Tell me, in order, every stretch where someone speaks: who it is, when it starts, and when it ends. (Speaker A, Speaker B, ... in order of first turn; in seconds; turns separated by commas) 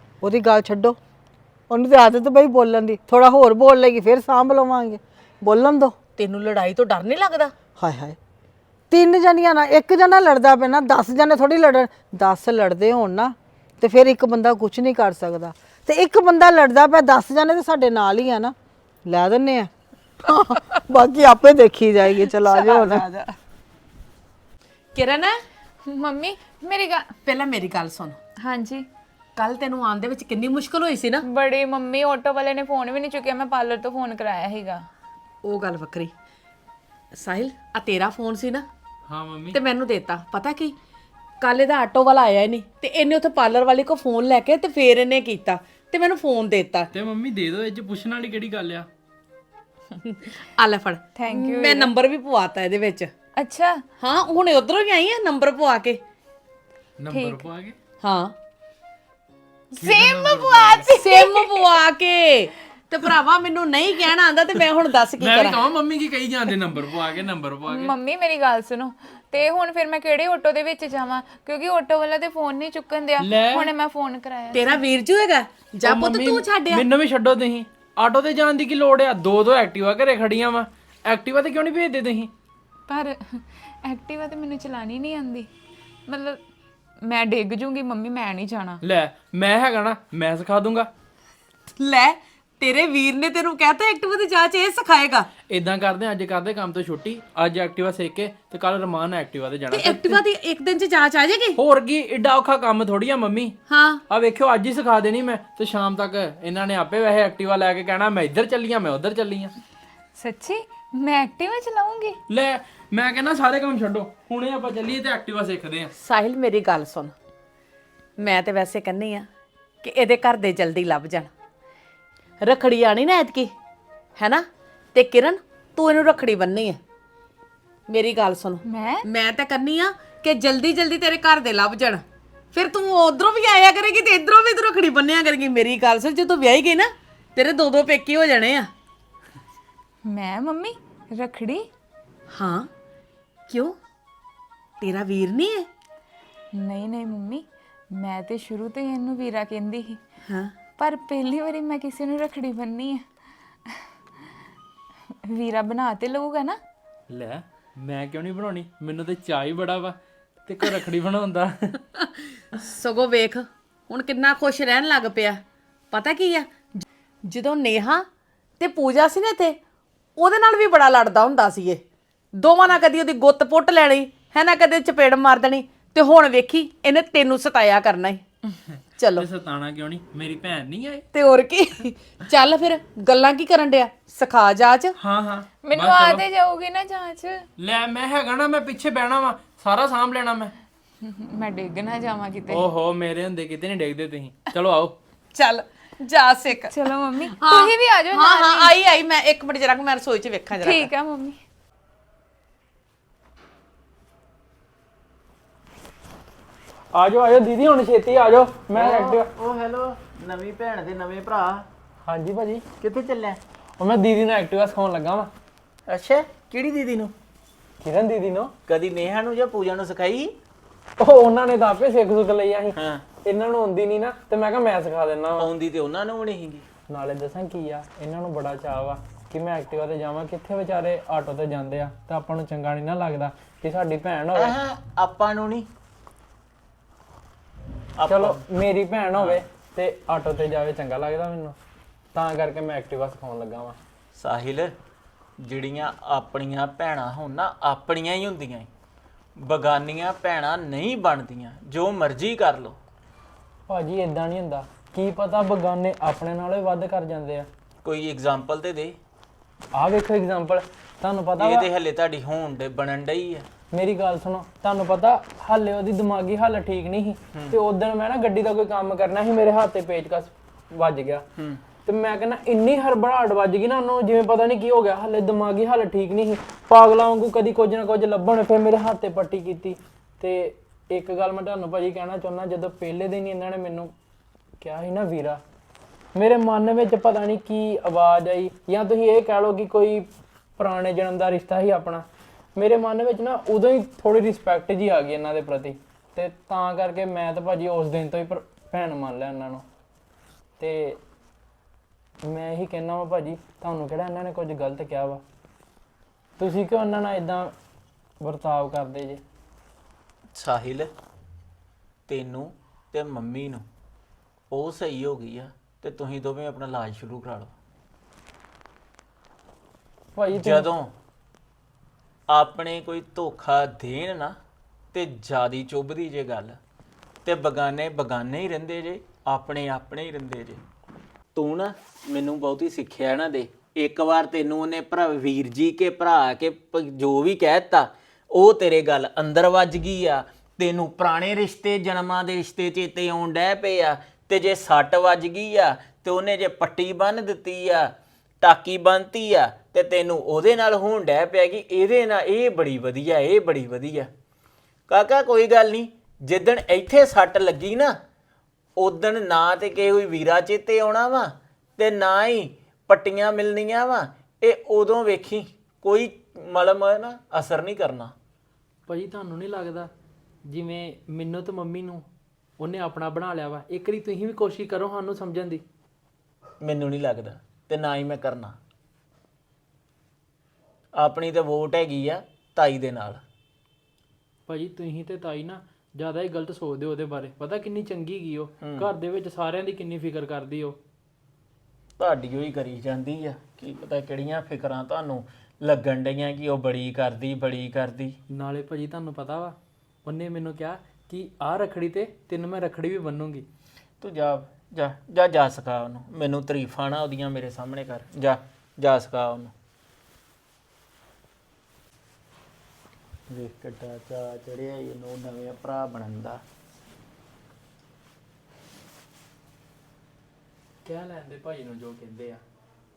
Speaker A: 0.2-1.0, Speaker A: 1.7-6.0, Speaker B: 6.2-7.5, Speaker A: 7.8-8.2, Speaker A: 8.9-19.7, Speaker A: 20.3-23.0, Speaker B: 22.2-23.3, Speaker B: 24.9-25.3, Speaker C: 25.8-27.1, Speaker B: 27.2-28.2, Speaker C: 28.4-28.9, Speaker B: 29.4-31.2, Speaker C: 31.2-34.9, Speaker B: 35.4-36.1, Speaker B: 37.1-38.7, Speaker D: 39.1-39.6, Speaker B: 39.5-40.8, Speaker B: 41.4-46.9, Speaker D: 46.9-48.9, Speaker B: 50.0-53.1, Speaker C: 51.1-51.9, Speaker C: 53.4-53.8, Speaker B: 54.0-56.0, Speaker D: 57.0-57.8, Speaker C: 57.1-57.5, Speaker B: 58.0-58.3, Speaker C: 59.7-61.7, Speaker D: 59.8-60.9, Speaker B: 60.9-65.6, Speaker D: 65.2-67.9, Speaker C: 67.7-74.8, Speaker D: 73.2-73.7, Speaker B: 74.5-76.8, Speaker D: 75.8-82.3, Speaker C: 82.9-85.5, Speaker C: 86.1-86.4, Speaker C: 87.0-88.8, Speaker D: 88.8-90.9, Speaker B: 91.8-95.3, Speaker D: 95.5-100.2, Speaker B: 99.7-101.6, Speaker D: 101.6-103.6, Speaker B: 103.7-104.0, Speaker D: 104.1-109.5, Speaker C: 110.1-112.2, Speaker D: 112.3-115.9, Speaker B: 116.0-117.1, Speaker B: 118.2-119.3, Speaker B: 119.8-121.3, Speaker B: 122.4-123.5, Speaker B: 124.2-126.8, Speaker B: 127.9-138.7, Speaker C: 128.6-129.1, Speaker C: 140.0-141.7, Speaker B: 142.3-142.7, Speaker B: 143.5-143.8, Speaker B: 144.8-145.7, Speaker C: 146.5-150.0, Speaker B: 150.2-150.5, Speaker C: 150.8-153.0, Speaker C: 155.2-156.6, Speaker D: 157.1-161.8, Speaker B: 161.9-165.4, Speaker B: 165.9-168.1, Speaker B: 168.6-169.6, Speaker B: 170.2-171.8, Speaker B: 172.3-178.2, Speaker D: 178.7-181.0, Speaker B: 179.0-179.3, Speaker B: 181.1-184.9, Speaker D: 185.0-186.2, Speaker C: 185.6-187.4, Speaker D: 187.6-190.5, Speaker C: 191.0-192.7, Speaker D: 192.5-195.0, Speaker B: 195.3-200.9, Speaker C: 196.7-198.7, Speaker C: 200.6-201.4, Speaker D: 206.9-209.3, Speaker E: 208.7-211.7, Speaker D: 212.0-212.6, Speaker E: 212.8-213.4, Speaker D: 213.8-215.3, Speaker E: 215.9-217.1, Speaker D: 217.8-218.5, Speaker E: 218.7-220.3, Speaker D: 221.0-225.5, Speaker E: 222.8-223.1, Speaker E: 225.4-226.7, Speaker D: 226.9-234.5, Speaker E: 234.3-235.7, Speaker E: 238.0-238.4, Speaker D: 238.1-241.6, Speaker E: 239.2-239.4, Speaker D: 242.1-243.8, Speaker E: 244.1-244.7, Speaker E: 245.4-248.7, Speaker E: 249.4-252.8, Speaker D: 253.7-257.5, Speaker E: 257.8-259.0, Speaker D: 259.7-261.7, Speaker E: 261.4-263.5, Speaker D: 263.7-271.2, Speaker E: 271.4-271.6, Speaker D: 271.9-283.9, Speaker D: 284.6-285.4, Speaker D: 286.1-299.6, Speaker D: 300.6-301.0, Speaker D: 302.2-305.2, Speaker D: 306.4-307.5, Speaker D: 308.2-309.2, Speaker E: 310.3-310.9, Speaker E: 312.1-313.6, Speaker E: 314.5-317.5, Speaker D: 320.1-320.7, Speaker E: 320.3-320.9, Speaker E: 322.3-324.4, Speaker E: 324.9-326.6, Speaker E: 327.2-330.6, Speaker E: 331.3-354.1, Speaker E: 354.9-357.9, Speaker E: 358.8-368.1, Speaker D: 368.9-369.9, Speaker D: 370.4-372.1, Speaker D: 372.6-375.6, Speaker E: 376.6-378.6, Speaker E: 380.9-383.2, Speaker D: 384.5-390.8, Speaker E: 388.6-388.9, Speaker E: 392.0-398.1, Speaker D: 398.3-403.4, Speaker E: 404.0-409.5, Speaker E: 413.3-416.4, Speaker D: 420.8-422.4